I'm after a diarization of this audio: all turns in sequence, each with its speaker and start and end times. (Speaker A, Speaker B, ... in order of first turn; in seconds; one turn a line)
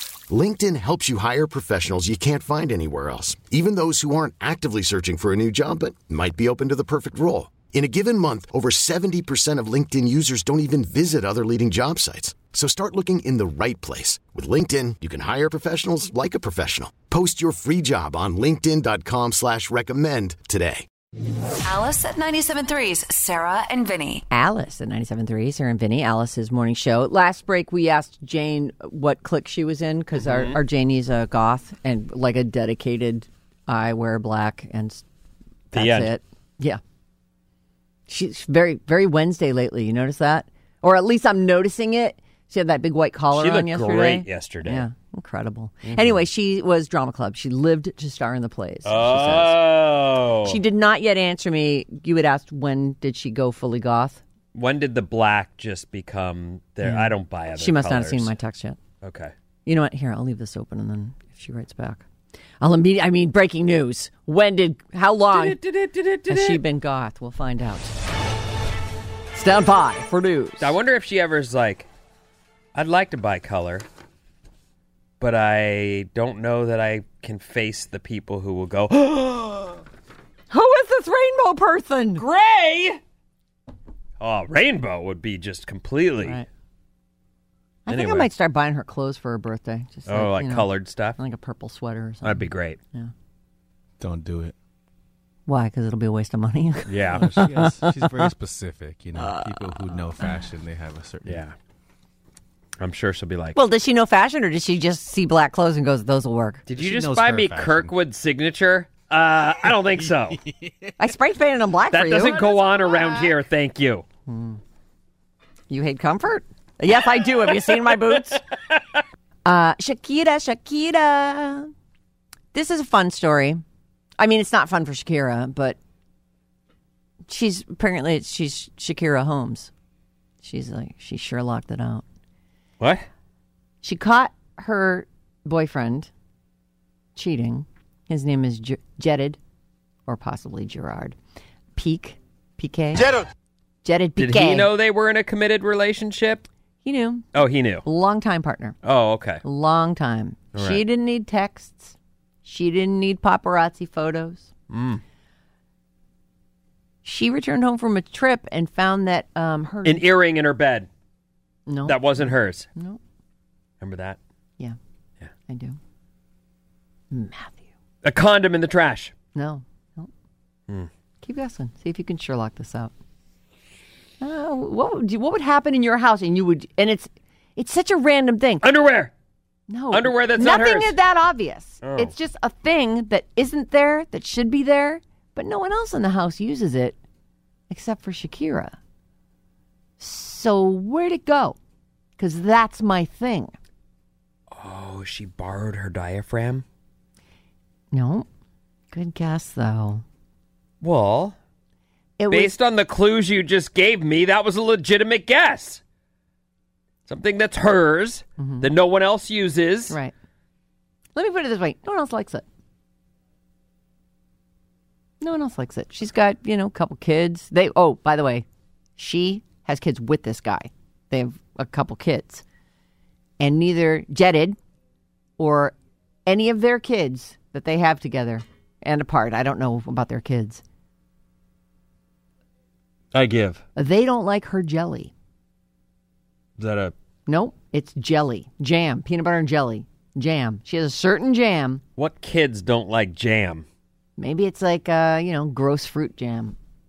Speaker A: 0.3-20.9
Speaker B: 21.6-24.2
Speaker C: 24.3-35.0
Speaker D: 30.2-30.6
Speaker C: 35.7-36.8
Speaker D: 35.7-36.1
Speaker C: 38.1-49.6
Speaker D: 43.3-44.8
Speaker D: 45.9-46.2
Speaker D: 48.8-50.6
Speaker C: 50.5-54.2
Speaker D: 54.5-58.3
Speaker C: 56.8-58.8
Speaker D: 59.0-59.3
Speaker C: 59.6-62.0
Speaker C: 62.6-65.6
Speaker D: 65.3-66.6
Speaker C: 66.3-67.9
Speaker C: 69.3-70.7
Speaker D: 70.6-71.9
Speaker D: 72.7-73.8
Speaker D: 75.2-79.8
Speaker C: 80.5-82.2
Speaker D: 82.2-83.0
Speaker D: 84.2-86.4
Speaker C: 87.8-93.1
Speaker D: 87.9-88.3
Speaker D: 90.1-91.2
Speaker D: 92.2-92.8
Speaker E: 94.0-94.5
Speaker C: 95.5-98.3
Speaker D: 96.9-97.4
Speaker E: 97.1-101.4
Speaker C: 99.2-99.5
Speaker D: 101.2-101.5
Speaker D: 102.8-103.5
Speaker C: 103.5-106.6
Speaker D: 106.7-110.4
Speaker E: 106.7-108.0
Speaker C: 111.0-112.4
Speaker D: 111.9-114.0
Speaker C: 114.3-114.6
Speaker C: 115.7-118.4
Speaker D: 118.7-119.0
Speaker C: 119.4-121.7
Speaker C: 122.5-123.6
Speaker C: 124.2-125.8
Speaker C: 127.3-129.7
Speaker C: 130.4-132.0
Speaker D: 132.8-133.1
Speaker C: 133.8-136.1
Speaker C: 137.2-139.4
Speaker C: 140.1-141.2
Speaker C: 141.8-143.2
Speaker C: 143.8-144.7
Speaker D: 144.2-146.4
Speaker C: 146.8-147.3
Speaker D: 147.3-147.8
Speaker C: 147.8-148.8
Speaker D: 148.8-149.4
Speaker C: 149.4-154.5
Speaker D: 150.5-150.8
Speaker D: 154.7-155.0
Speaker C: 157.0-160.1
Speaker D: 159.8-160.9
Speaker C: 161.7-163.0
Speaker D: 161.8-162.7
Speaker D: 163.8-164.2
Speaker C: 165.5-165.8
Speaker C: 167.1-167.6
Speaker D: 168.0-169.1
Speaker C: 169.3-170.1
Speaker C: 171.2-172.9
Speaker C: 174.2-178.6
Speaker D: 178.6-179.1
Speaker C: 179.7-186.9
Speaker D: 179.9-180.9
Speaker D: 181.8-182.1
Speaker C: 187.7-188.8
Speaker C: 190.0-191.6
Speaker C: 192.2-193.5
Speaker D: 194.5-196.6
Speaker C: 197.9-198.2
Speaker C: 198.9-200.0
Speaker D: 200.8-201.3
Speaker C: 202.2-202.5
Speaker D: 202.3-205.8
Speaker D: 207.1-209.9
Speaker C: 208.4-208.7
Speaker C: 211.1-212.4
Speaker C: 215.2-218.4
Speaker C: 219.0-222.4
Speaker C: 223.4-224.6
Speaker C: 225.4-225.7
Speaker C: 226.2-230.6
Speaker D: 233.1-233.6
Speaker C: 233.8-235.1
Speaker D: 236.6-236.9
Speaker C: 237.3-241.8
Speaker D: 242.0-243.6
Speaker C: 244.2-246.6